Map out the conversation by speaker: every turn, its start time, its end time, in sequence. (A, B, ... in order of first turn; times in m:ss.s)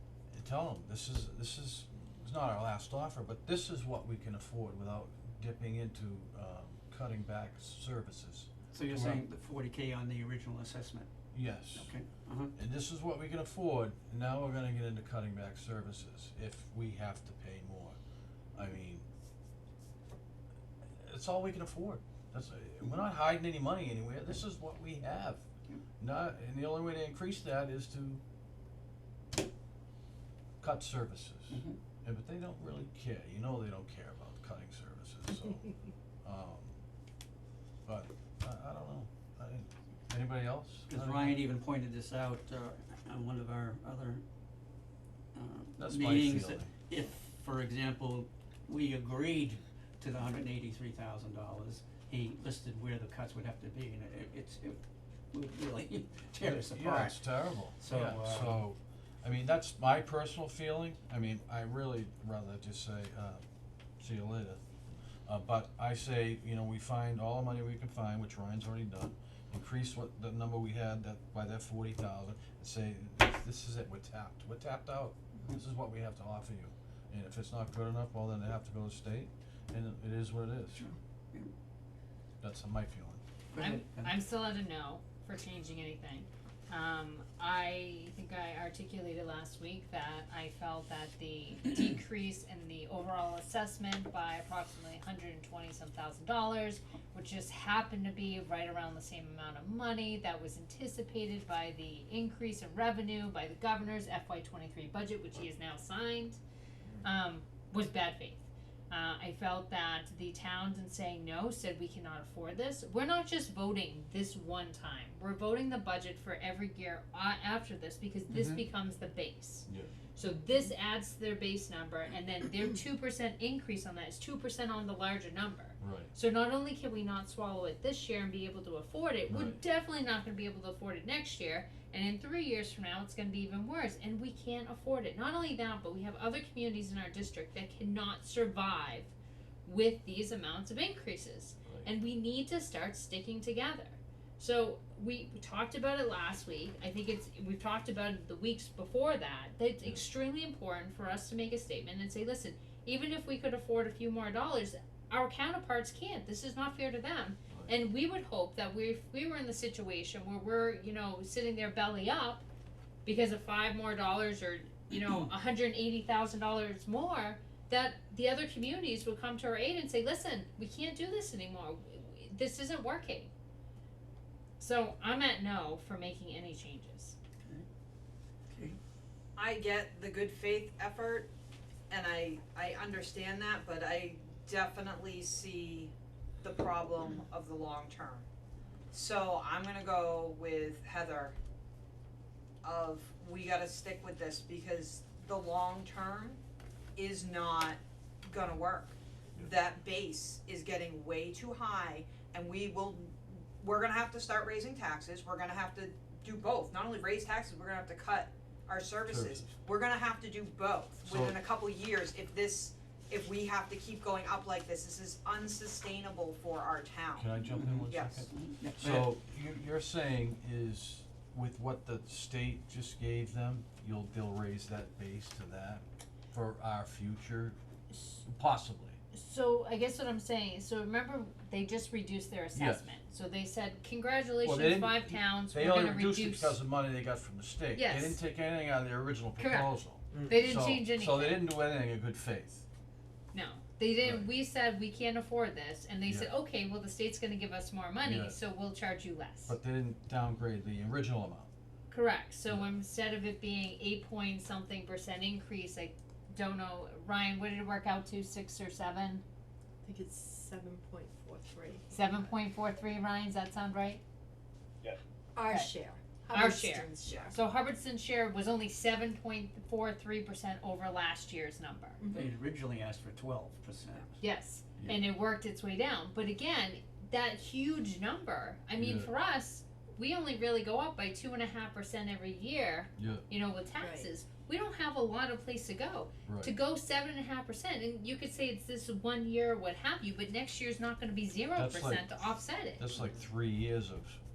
0:00.3-0:09.2 A
0:08.7-0:11.1 B
0:11.3-0:11.9 A
0:11.7-0:12.5 B
0:12.5-0:18.0 A
0:18.5-0:19.0 A
0:21.0-0:25.4 A
0:26.0-0:28.2 A
0:30.6-0:35.7 A
0:31.5-0:31.8 B
0:36.2-0:36.8 A
0:37.8-0:41.4 A
0:40.9-0:44.2 B
0:45.3-0:54.8 B
0:45.8-0:46.7 A
0:55.3-0:58.6 B
0:56.4-1:03.4 A
1:04.0-1:04.6 A
1:05.2-1:20.9 A
1:20.7-1:21.5 B
1:22.4-1:23.2 A
1:23.5-1:24.1 B
1:23.6-1:46.4 C
1:47.0-2:19.1 C
1:58.3-1:58.6 B
1:59.7-1:59.9 A
2:05.8-2:06.1 A
2:09.3-2:09.6 A
2:19.6-2:42.4 C
2:43.0-2:53.3 C
2:54.6-2:57.2 C
2:58.5-2:58.8 B
2:59.4-3:01.3 D
3:01.9-3:08.2 D
3:08.9-3:11.3 D
3:12.6-3:16.4 D
3:17.0-3:37.2 D
3:29.0-3:29.5 A
3:31.0-3:31.4 A
3:37.2-3:49.0 A
3:37.5-3:39.1 B
3:37.9-3:38.2 D
3:49.1-3:56.6 C
3:52.5-3:52.9 A
3:54.4-4:02.6 A
3:57.7-3:58.2 C
3:59.4-4:01.5 C
4:03.3-4:09.6 C
4:04.0-4:04.3 A
4:06.0-4:06.3 A
4:08.0-4:08.4 A
4:09.4-4:11.5 A
4:11.9-4:19.2 C
4:12.5-4:12.7 A
4:19.8-4:22.3 E
4:21.9-4:24.0 C
4:25.4-4:27.3 E
4:26.3-4:32.0 C
4:26.4-4:27.3 D
4:32.0-4:32.3 E
4:32.1-4:34.2 B
4:34.2-4:52.8 C
4:38.8-4:39.1 A
4:43.0-4:43.3 A
4:43.8-4:44.1 E
4:46.2-4:46.5 A
4:51.6-4:54.2 A